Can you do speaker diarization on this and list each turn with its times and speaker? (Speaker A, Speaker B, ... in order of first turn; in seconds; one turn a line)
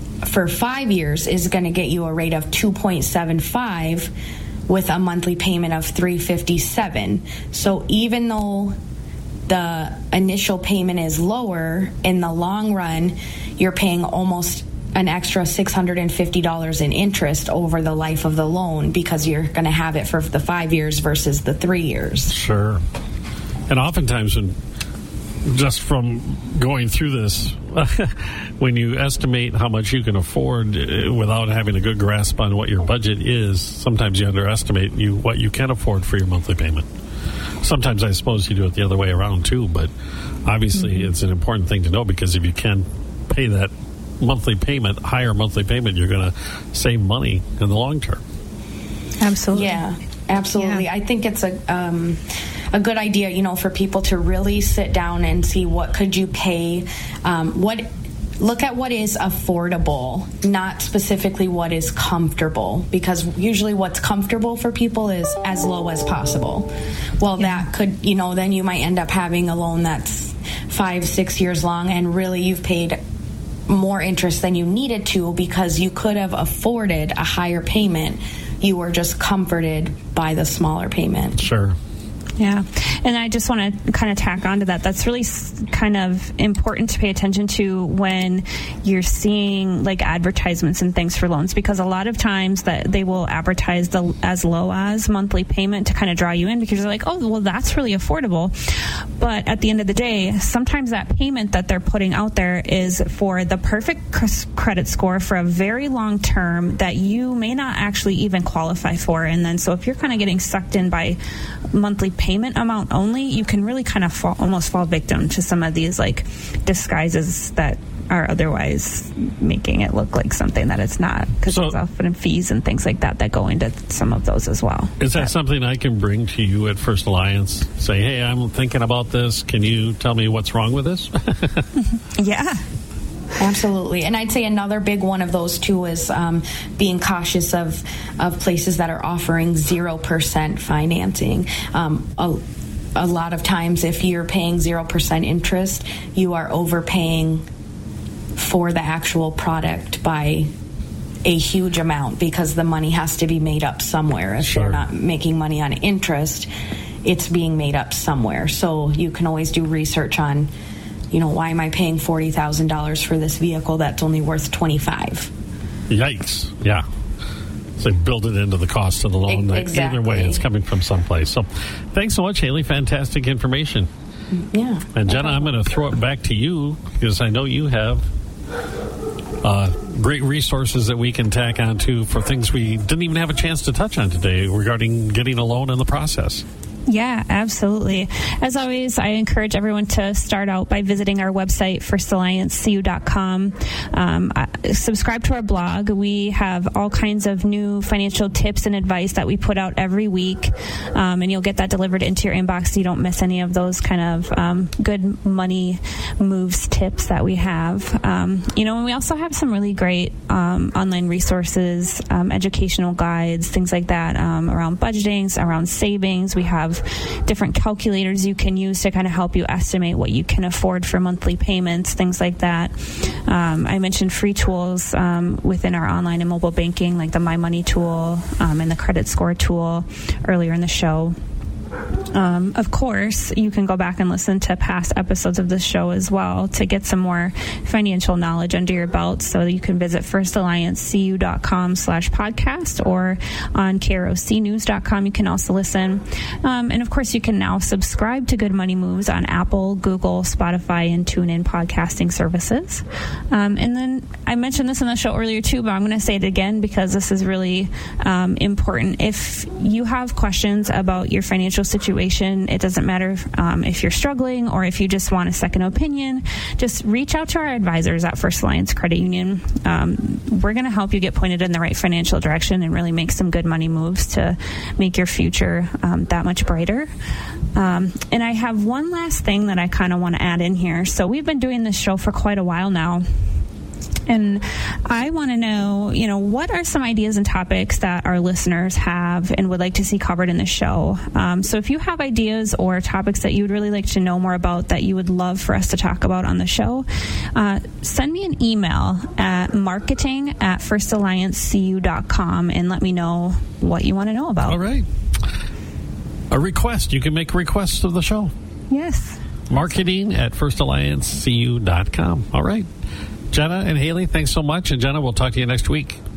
Speaker A: 0.2-4.1
Speaker A: 4.7-8.8
Speaker A: 9.5-22.3
Speaker B: 22.3-22.8
Speaker B: 23.7-24.6
Speaker B: 25.4-36.9
Speaker B: 37.6-39.9
Speaker B: 40.5-48.2
Speaker C: 40.8-41.0
Speaker C: 49.2-49.8
Speaker A: 49.5-52.2
Speaker C: 50.6-50.8
Speaker A: 52.7-57.9
Speaker A: 58.4-73.0
Speaker A: 73.7-81.5
Speaker B: 81.4-81.8
Speaker C: 82.4-98.5
Speaker C: 99.2-111.2
Speaker C: 111.7-125.3
Speaker B: 121.5-121.8
Speaker B: 125.0-131.7
Speaker C: 131.9-132.6
Speaker A: 133.4-142.4
Speaker A: 143.0-147.4
Speaker A: 148.4-150.5
Speaker A: 151.2-156.5
Speaker B: 154.4-154.8
Speaker A: 157.0-160.5
Speaker A: 161.1-165.3
Speaker B: 165.9-166.8
Speaker B: 167.8-173.9
Speaker A: 169.3-170.4
Speaker A: 174.3-175.4
Speaker B: 174.9-178.1
Speaker B: 179.4-186.4
Speaker C: 186.9-222.8
Speaker C: 223.3-231.2
Speaker C: 232.1-276.9
Speaker C: 277.6-283.0
Speaker C: 284.1-304.6
Speaker B: 304.5-304.9
Speaker B: 306.3-308.3
Speaker C: 308.7-309.2
Speaker B: 309.5-312.7
Speaker B: 313.3-316.0